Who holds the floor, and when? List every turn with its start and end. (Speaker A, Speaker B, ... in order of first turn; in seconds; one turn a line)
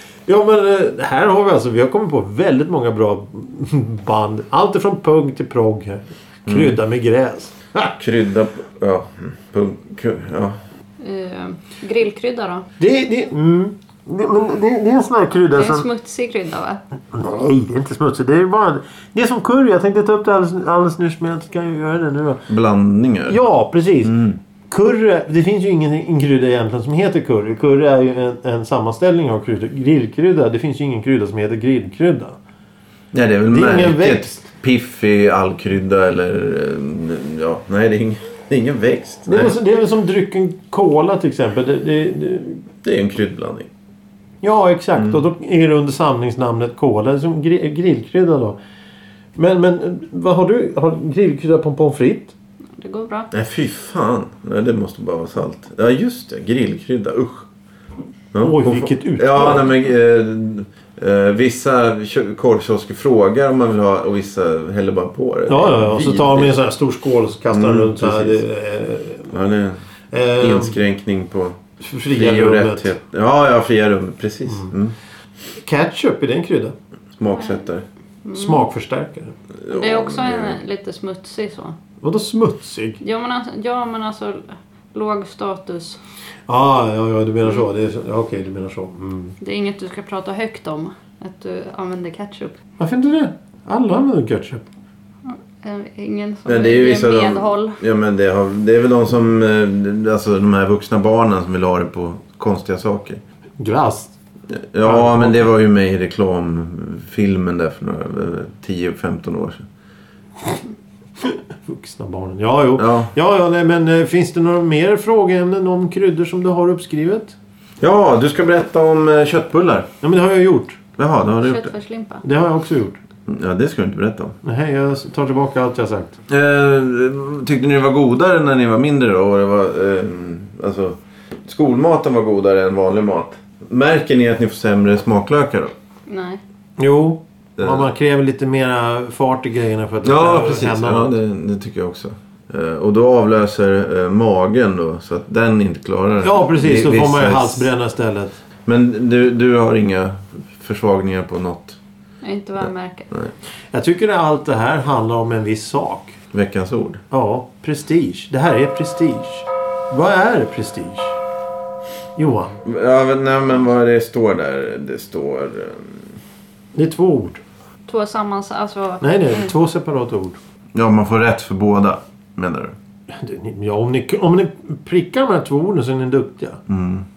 Speaker A: 0.3-7.9
Speaker B: 6.5-6.8
Speaker B: 8.0-10.6
Speaker C: 11.0-12.7
Speaker A: 12.8-15.9
Speaker C: 15.5-16.8
Speaker A: 17.1-22.4
Speaker B: 22.5-23.4
Speaker A: 23.3-32.4
Speaker B: 24.0-24.4
Speaker B: 33.1-39.5
Speaker A: 33.5-34.4
Speaker A: 39.3-42.6
Speaker B: 42.8-43.7
Speaker A: 44.4-48.6
Speaker A: 49.4-52.3
Speaker C: 52.8-53.3
Speaker B: 53.3-57.5
Speaker B: 58.3-66.5
Speaker A: 58.4-59.7
Speaker A: 65.5-69.3
Speaker B: 67.5-68.4
Speaker B: 69.3-69.8
Speaker A: 70.1-70.8
Speaker B: 70.4-71.6
Speaker A: 71.8-72.9
Speaker B: 72.1-74.9
Speaker A: 75.6-76.7
Speaker B: 77.2-77.8
Speaker C: 77.3-77.6
Speaker C: 78.2-78.7
Speaker A: 78.3-79.3
Speaker B: 79.6-80.6
Speaker C: 79.7-81.8
Speaker A: 82.0-83.0
Speaker C: 83.0-86.0
Speaker A: 86.5-89.3
Speaker C: 89.4-92.5
Speaker A: 92.8-94.7
Speaker C: 95.2-97.8
Speaker B: 96.5-103.2
Speaker A: 103.6-104.1
Speaker B: 104.5-109.7
Speaker A: 104.8-105.4
Speaker A: 111.2-117.3
Speaker B: 112.8-113.1
Speaker B: 117.8-119.9
Speaker A: 120.0-120.8
Speaker B: 121.0-121.7
Speaker C: 121.4-122.2
Speaker A: 122.2-123.0
Speaker B: 123.3-124.3
Speaker A: 124.4-126.2
Speaker B: 126.3-135.7
Speaker C: 136.1-136.4
Speaker A: 136.8-141.1
Speaker B: 137.6-137.8
Speaker B: 140.0-147.7
Speaker A: 146.2-148.4
Speaker B: 148.7-151.8
Speaker C: 152.2-153.1
Speaker B: 152.6-153.3
Speaker A: 153.7-156.2
Speaker B: 156.3-157.0
Speaker A: 157.1-161.2
Speaker A: 162.2-162.6
Speaker B: 162.6-166.1
Speaker A: 166.7-167.4
Speaker C: 167.9-169.5
Speaker A: 169.0-170.4
Speaker B: 170.7-172.7
Speaker A: 173.1-176.6
Speaker B: 176.7-177.1